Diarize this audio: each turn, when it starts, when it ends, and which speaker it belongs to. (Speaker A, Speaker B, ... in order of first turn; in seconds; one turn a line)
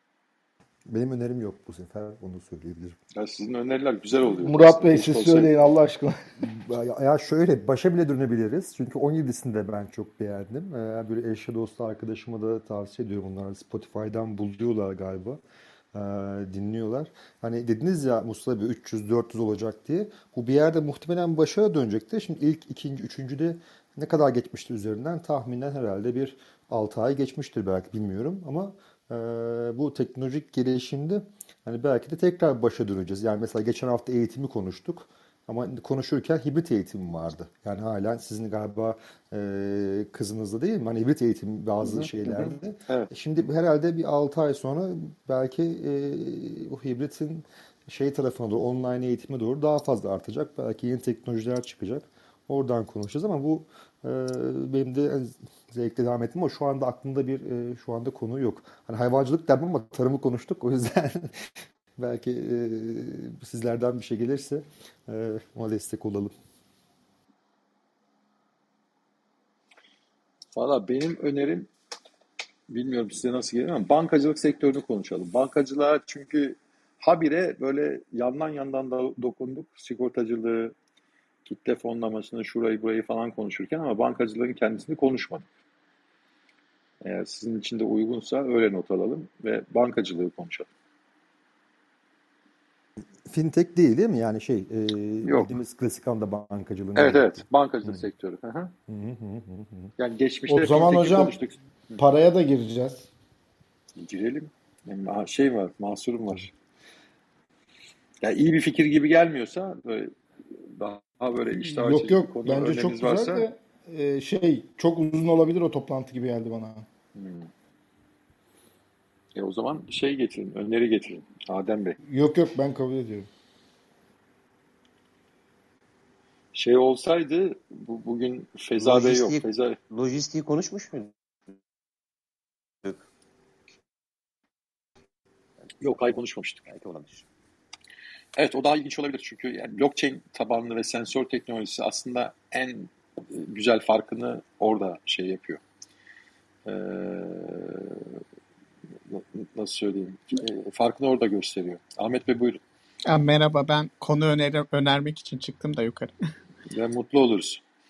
Speaker A: 0.9-3.0
Speaker B: 3.1-5.5
Speaker C: 4.4-6.2
Speaker A: 6.4-15.4
Speaker A: 15.9-66.3
Speaker B: 42.0-43.1
Speaker B: 70.5-71.7
Speaker B: 72.7-80.7
Speaker B: 81.5-85.4
Speaker B: 87.0-90.7
Speaker A: 93.2-98.0
Speaker B: 95.2-95.5
Speaker B: 97.0-98.7
Speaker A: 98.9-99.9
Speaker B: 100.0-102.0
Speaker C: 100.5-101.3
Speaker C: 102.0-103.1
Speaker B: 104.0-106.5
Speaker B: 108.2-113.5
Speaker C: 111.6-116.8
Speaker B: 117.1-117.5
Speaker B: 119.3-122.0
Speaker C: 122.0-123.3
Speaker B: 126.5-129.8
Speaker D: 128.8-131.1
Speaker B: 135.8-136.6
Speaker D: 136.6-137.2
Speaker B: 138.3-145.6
Speaker B: 146.7-148.2
Speaker B: 149.1-152.6
Speaker E: 153.1-156.1
Speaker B: 156.7-157.6